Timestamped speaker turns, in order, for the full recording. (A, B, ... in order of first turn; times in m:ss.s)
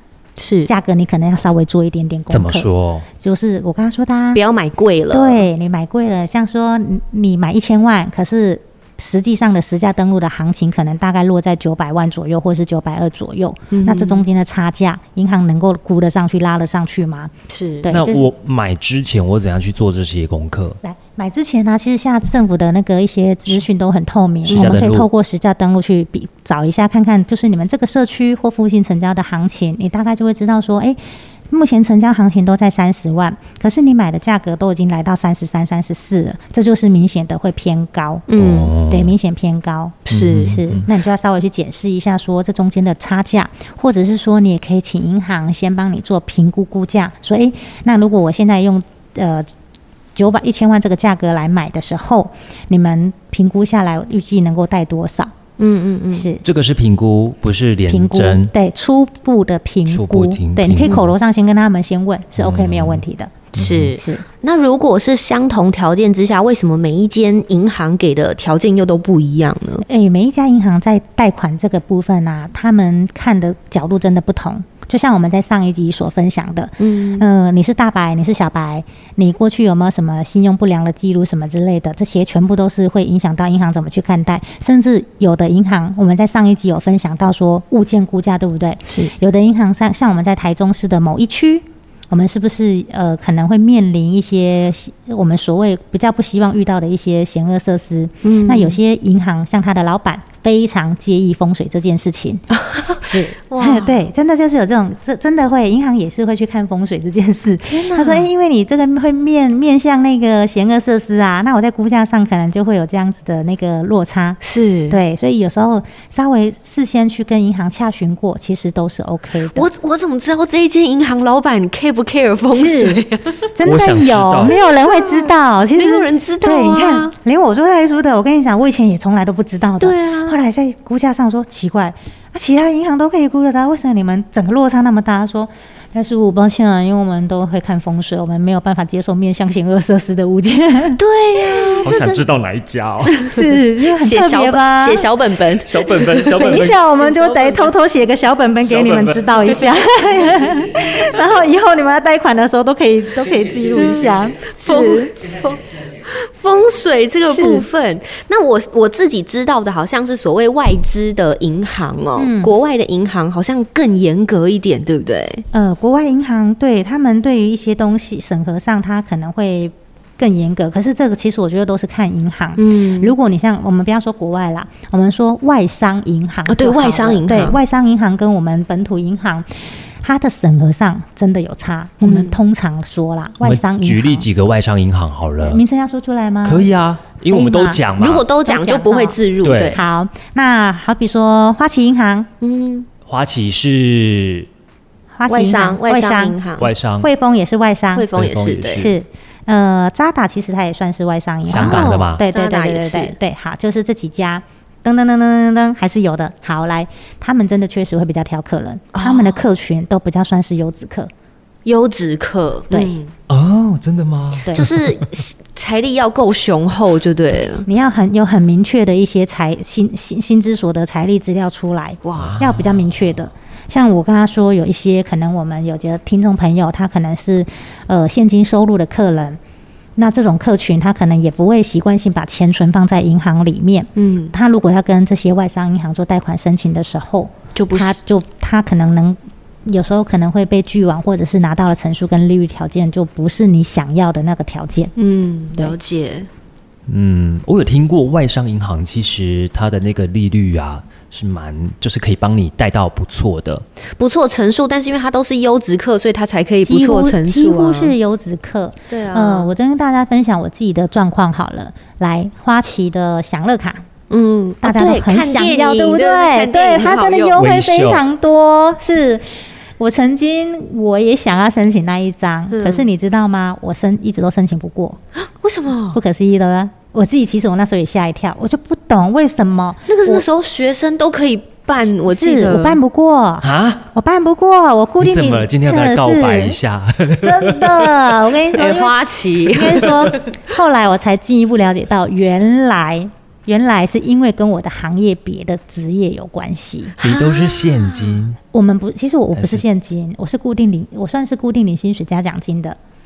0:00.4-0:00.7 A
0:00.6-0:04.4 B
0:02.3-0:03.1 C
0:04.3-0:05.4 A
0:05.1-0:18.3 B
0:13.7-0:14.2 A
0:17.5-0:17.9 A
0:17.9-0:20.8 C
0:20.8-0:31.0 B
0:24.5-0:24.8 A
0:24.5-0:25.1 C
0:31.5-0:38.3 B
0:38.3-0:38.7 A
0:38.4-0:39.2 C
0:38.8-0:49.5 B
0:40.1-0:40.6 A
0:40.1-0:40.9 C
0:50.2-0:55.3 B
0:55.6-0:56.3 A
0:56.1-0:56.4 B
0:56.4-0:58.5 C
0:57.9-1:03.5 B
0:59.9-1:01.1 C
1:02.4-1:03.0 C
1:03.6-1:04.0 C
1:03.6-1:09.8 A
1:04.0-1:04.2 B
1:09.9-1:42.4 B
1:16.8-1:17.3 A
1:28.9-1:29.1 A
1:38.2-1:38.8 A
1:42.5-1:44.0 A
1:43.0-1:59.7 B
1:47.7-1:48.3 A
1:54.4-1:55.0 A
1:59.5-2:03.5 A
2:02.5-2:03.0 B
2:03.6-2:21.0 B
2:03.6-2:04.6 C
2:04.4-2:07.1 A
2:09.8-2:10.4 A
2:21.0-2:22.2 A
2:21.8-2:23.3 C
2:23.1-2:23.5 A
2:23.2-2:25.1 B
2:24.0-2:26.6 A
2:25.6-2:26.8 C
2:26.2-2:35.1 B
2:27.2-2:27.7 A
2:28.6-2:29.6 C
2:34.5-2:45.4 A
2:37.3-2:37.7 B
2:42.2-2:42.5 B
2:45.5-3:04.3 B
2:52.6-2:53.2 A
2:56.5-2:57.6 A
3:02.0-3:02.4 A
3:03.4-3:05.6 C
3:05.4-3:06.7 B
3:06.4-3:08.3 C
3:07.3-3:07.8 B
3:07.9-3:09.8 A
3:08.4-3:09.2 B
3:09.4-3:09.8 C
3:09.7-3:12.3 B
3:12.4-3:12.9 A
3:13.1-3:14.5 C
3:15.1-3:16.4 B
3:15.3-3:16.7 A
3:16.6-3:17.1 C
3:17.0-3:18.1 B
3:17.9-3:18.9 A
3:18.1-3:19.0 C
3:18.7-3:31.1 B
3:21.5-3:22.2 C
3:21.5-3:23.2 A
3:28.9-3:29.4 A
3:31.7-3:33.1 A
3:32.7-3:33.0 B
3:33.3-3:35.1 C
3:34.4-3:34.7 B
3:34.5-3:37.7 A
3:37.7-3:49.4 B
3:42.0-3:42.4 A
3:42.2-3:43.2 C
3:50.0-4:04.9 B
3:54.0-3:54.3 A
3:57.6-3:58.0 A
4:05.0-4:06.3 A
4:06.9-4:13.6 C
4:14.0-4:17.9 A
4:16.6-4:23.8 B
4:18.9-4:19.5 A
4:24.1-4:27.4 A
4:24.6-4:29.2 B
4:27.4-4:28.0 C
4:29.8-4:35.0 B
4:32.5-4:32.9 A
4:35.2-4:36.0 A
4:35.9-4:40.2 B
4:39.9-4:42.8 A
4:42.1-4:46.6 B
4:43.4-4:43.8 C
4:45.0-4:48.3 C
4:47.2-4:57.0 B
4:48.5-4:50.3 A
4:57.0-4:58.2 A
4:57.0-4:58.4 C
4:58.5-5:02.8 B
4:59.4-4:59.6 C